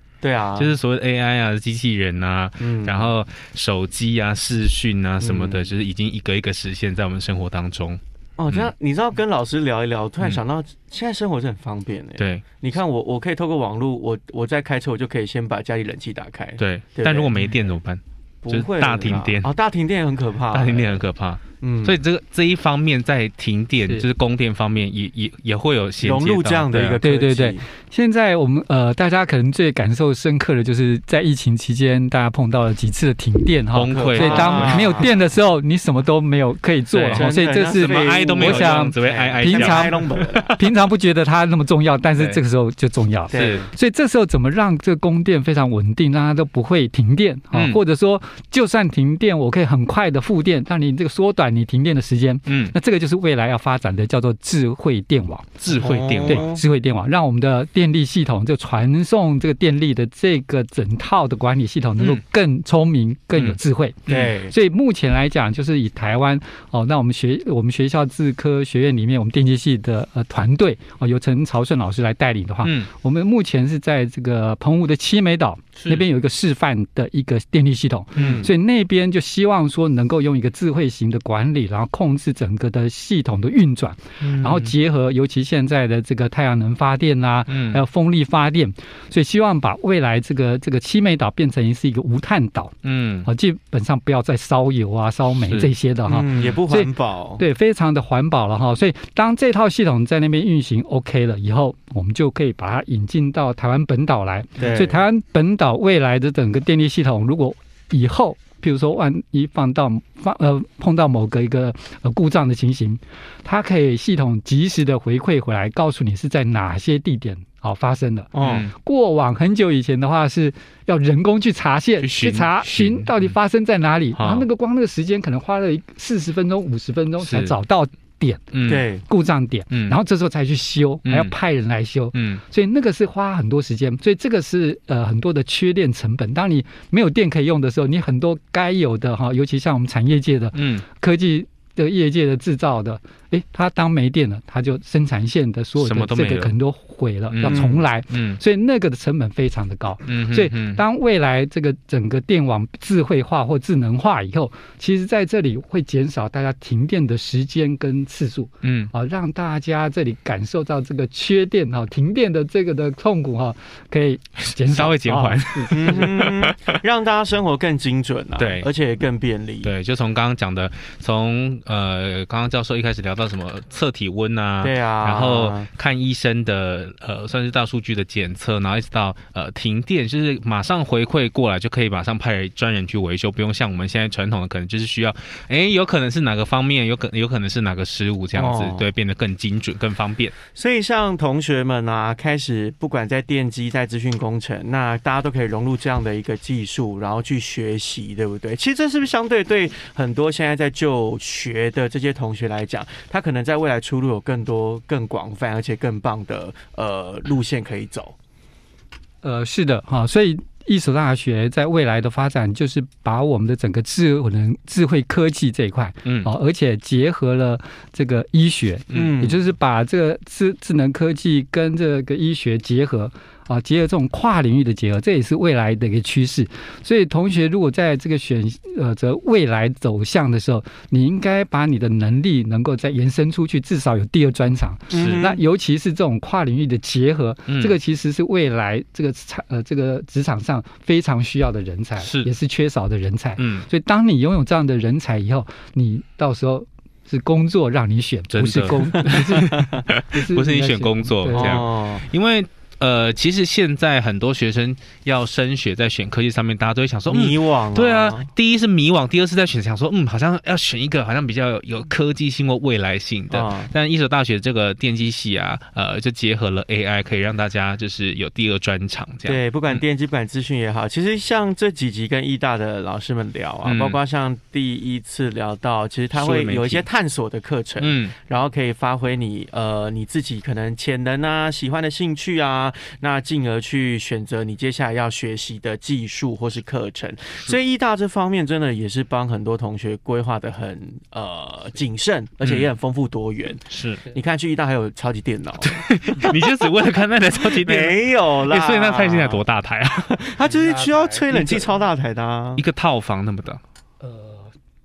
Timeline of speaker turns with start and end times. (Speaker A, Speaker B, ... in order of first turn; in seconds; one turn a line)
Speaker A: 0.2-0.8
Speaker B: 0.6-8.7
Speaker A: 2.6-3.1
Speaker A: 5.2-5.7
Speaker A: 8.4-17.6
Speaker B: 12.2-12.5
Speaker B: 16.6-19.5
Speaker A: 18.4-21.0
Speaker B: 20.5-27.0
Speaker A: 21.6-22.0
Speaker A: 26.0-27.6
Speaker C: 27.0-166.1
Speaker B: 33.7-35.1
Speaker A: 33.9-35.1
Speaker B: 36.9-40.7
Speaker A: 37.1-40.6
Speaker B: 43.3-43.6
Speaker A: 43.3-43.7
Speaker B: 47.5-47.8
Speaker B: 52.5-52.8
Speaker B: 55.6-56.5
Speaker A: 55.8-56.6
Speaker B: 63.4-64.3
Speaker A: 64.1-64.5
Speaker B: 72.6-72.9
Speaker B: 75.8-76.0
Speaker A: 78.2-78.5
Speaker B: 78.2-78.5
Speaker B: 84.2-84.7
Speaker B: 87.5-87.8
Speaker B: 92.8-93.3
Speaker B: 95.5-95.7
Speaker A: 96.0-97.4
Speaker A: 104.6-105.0
Speaker A: 118.3-118.7
Speaker B: 118.4-118.7
Speaker B: 122.0-123.3
Speaker B: 124.1-124.5
Speaker B: 127.2-127.5
Speaker B: 128.5-128.9
Speaker A: 128.6-129.0
Speaker B: 129.7-130.0
Speaker B: 131.1-131.4
Speaker B: 132.1-132.4
Speaker B: 140.5-140.8
Speaker B: 145.8-146.5
Speaker B: 147.3-148.4
Speaker A: 147.4-147.8
Speaker B: 150.1-150.8
Speaker B: 158.6-158.9
Speaker B: 164.4-166.8
Speaker A: 165.7-169.7
Speaker B: 168.4-168.7
Speaker B: 169.6-190.3
Speaker A: 174.6-175.7
Speaker A: 188.3-188.9
Speaker A: 190.5-208.2
Speaker C: 209.2-251.7
Speaker B: 216.1-216.3
Speaker A: 218.9-219.4
Speaker B: 234.9-235.3
Speaker A: 234.9-235.4
Speaker B: 237.5-237.8
Speaker B: 242.0-242.3
Speaker B: 243.4-243.7
Speaker B: 248.3-269.8
Speaker A: 249.2-249.7
Speaker A: 251.3-252.1
Speaker A: 257.1-258.3
Speaker A: 263.3-263.7
Speaker A: 269.2-296.4
Speaker B: 273.6-274.0
Speaker B: 276.1-276.9
Speaker B: 277.8-278.1
Speaker B: 292.4-292.7
Speaker B: 293.7-294.0
Speaker B: 295.6-300.2
Speaker A: 297.4-299.4
Speaker A: 300.1-302.6
Speaker C: 300.4-301.8
Speaker B: 302.6-303.6
Speaker C: 304.0-304.5